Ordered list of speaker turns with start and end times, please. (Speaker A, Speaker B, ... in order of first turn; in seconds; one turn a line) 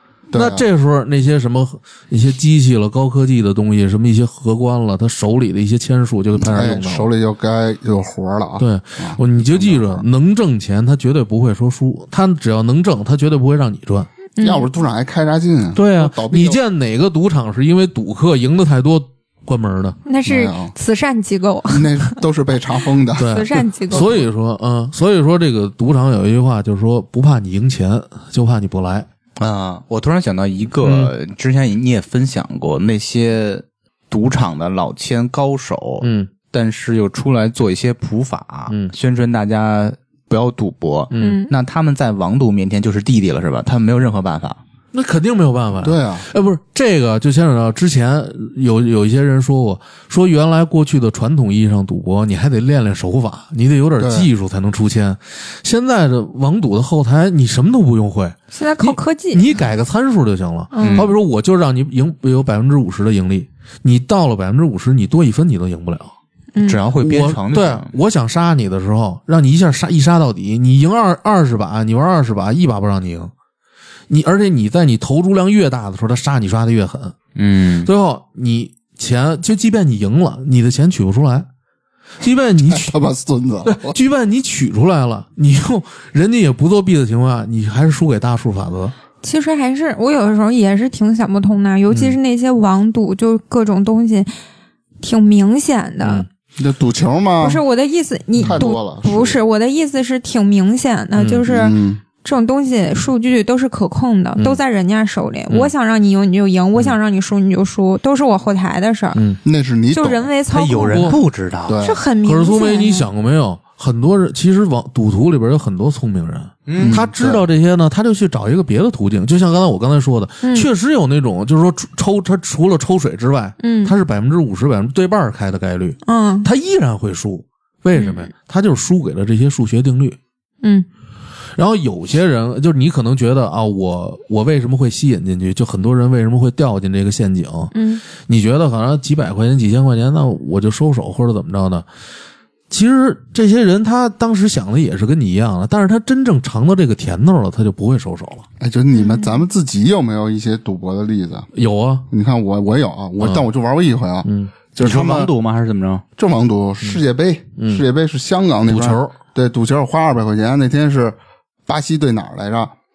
Speaker A: 0.3-0.6
Speaker B: 0.3-7.1
Speaker A: 6.4-10.0
Speaker B: 8.6-14.1
Speaker C: 14.4-14.7
Speaker A: 14.4-16.6
Speaker B: 15.7-20.0
Speaker C: 20.1-22.2
Speaker A: 20.2-20.7
Speaker A: 21.7-24.2
Speaker C: 23.2-24.1
Speaker B: 23.2-29.1
Speaker D: 29.4-44.6
Speaker B: 30.8-31.1
Speaker B: 36.0-36.3
Speaker B: 41.1-41.4
Speaker C: 41.1-41.5
Speaker B: 44.9-66.1
Speaker A: 45.8-46.3
Speaker A: 54.0-54.3
Speaker C: 58.5-59.5
Speaker C: 60.7-61.1
Speaker D: 60.8-61.1
Speaker C: 66.5-66.8
Speaker D: 66.6-67.9
Speaker B: 67.0-73.3
Speaker B: 74.1-77.1
Speaker D: 77.3-77.9
Speaker B: 77.8-81.5
Speaker B: 82.2-83.0
Speaker A: 82.7-84.0
Speaker B: 83.6-88.9
Speaker C: 89.2-94.3
Speaker B: 91.9-92.2
Speaker C: 95.0-96.2
Speaker A: 96.6-97.6
Speaker C: 97.4-109.2
Speaker A: 98.4-99.4
Speaker B: 101.2-101.4
Speaker A: 101.5-102.0
Speaker B: 109.1-109.4
Speaker A: 109.4-110.3
Speaker C: 109.9-111.2
Speaker D: 110.5-111.8
Speaker B: 110.9-111.2
Speaker A: 111.7-112.0
Speaker C: 111.8-113.1
Speaker B: 112.2-130.2
Speaker D: 116.7-117.0
Speaker A: 116.8-117.4
Speaker C: 120.4-120.7
Speaker C: 123.6-123.9
Speaker C: 126.0-126.5
Speaker C: 127.9-128.3
Speaker B: 131.6-141.8
Speaker C: 137.7-138.0
Speaker B: 142.7-148.4
Speaker A: 148.6-151.5
Speaker C: 148.9-149.4
Speaker B: 151.5-152.1
Speaker A: 152.1-155.3
Speaker B: 153.2-153.5
Speaker B: 154.2-154.5
Speaker D: 154.8-156.0
Speaker A: 156.2-162.7
Speaker B: 157.6-157.8
Speaker B: 158.7-159.2